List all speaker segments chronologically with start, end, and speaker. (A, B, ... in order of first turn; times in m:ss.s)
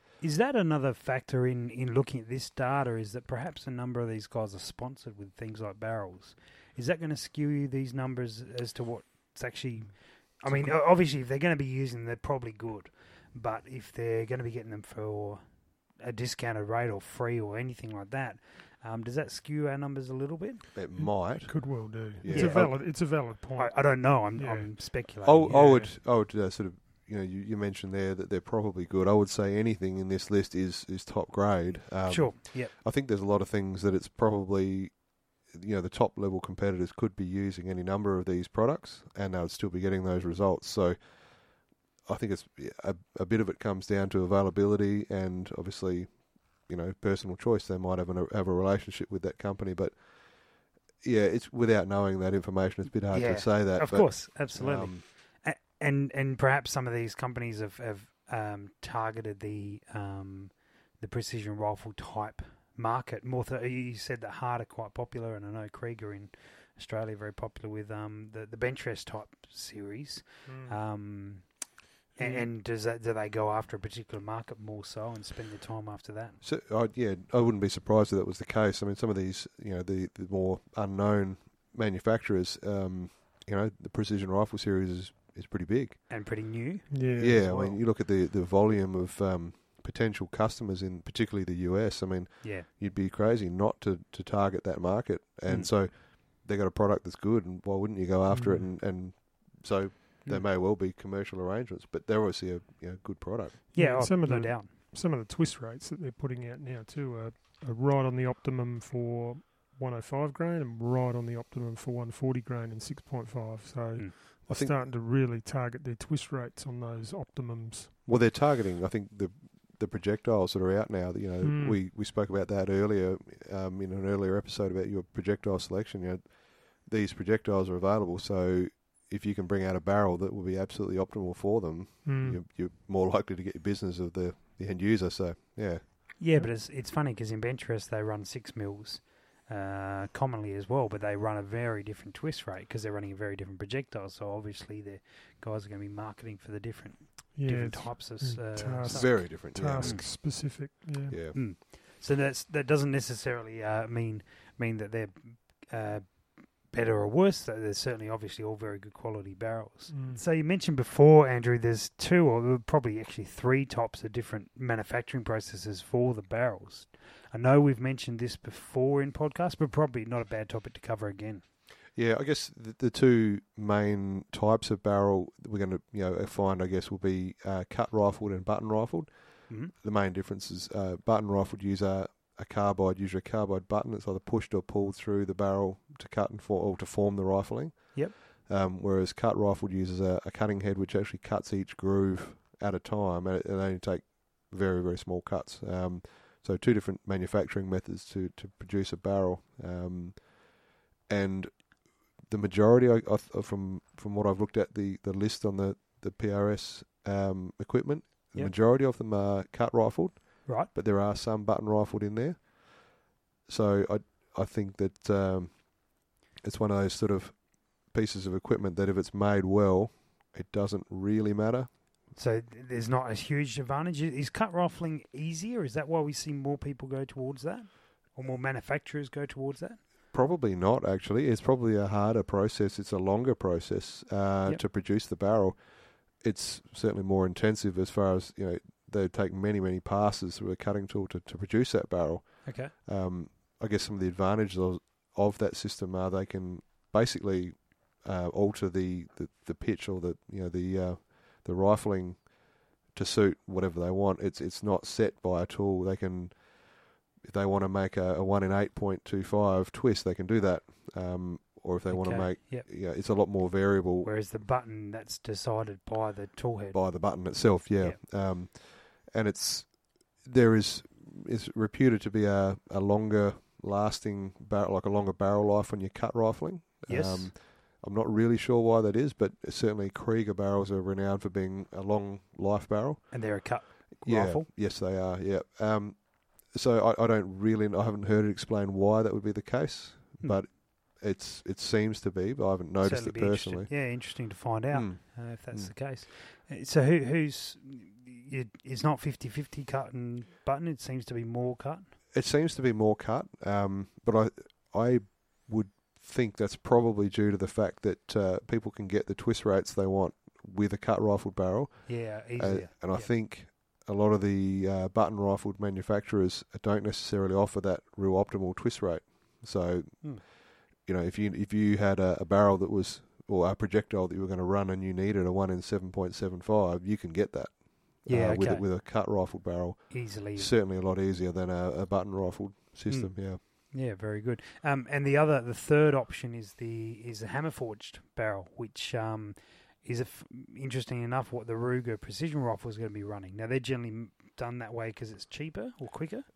0:00.2-0:20.7 A
0:10.4-0:10.7 B
0:20.7-0:22.8 B
0:21.0-0:25.9 C
0:22.3-0:25.7 A
0:25.2-0:55.0 B
0:32.1-0:32.7 A
0:53.1-1:16.4 A
1:10.4-1:10.8 C
1:12.1-1:12.5 C
1:16.4-1:26.0 B
1:26.1-1:27.8 A
1:26.9-1:27.5 C
1:27.2-1:43.6 B
1:32.4-1:32.7 A
1:35.5-1:35.7 A
1:38.3-1:38.7 C
1:43.7-1:57.9 C
1:43.7-1:44.7 A
1:54.5-1:54.8 B
1:58.0-2:16.2 B
2:01.4-2:01.8 C
2:12.0-2:12.4 C
2:16.2-2:30.1 A
2:27.3-2:31.2 C
2:28.9-2:30.2 B
2:31.1-2:31.4 B
2:31.3-2:51.4 A
2:39.9-2:40.2 C
2:51.9-3:41.8 B
2:59.5-2:59.7 A
3:42.1-3:49.9 A
3:50.1-4:24.1 B
4:02.4-4:02.7 A
4:21.9-4:22.7 A
4:24.0-4:28.0 A
4:26.7-4:55.7 B
4:36.9-4:37.3 A
4:43.1-4:44.4 A
4:52.8-5:02.0 A
5:02.1-5:33.4 B
5:11.8-5:13.1 A
5:28.0-5:29.2 A
5:29.9-5:30.5 A
5:32.9-5:46.3 A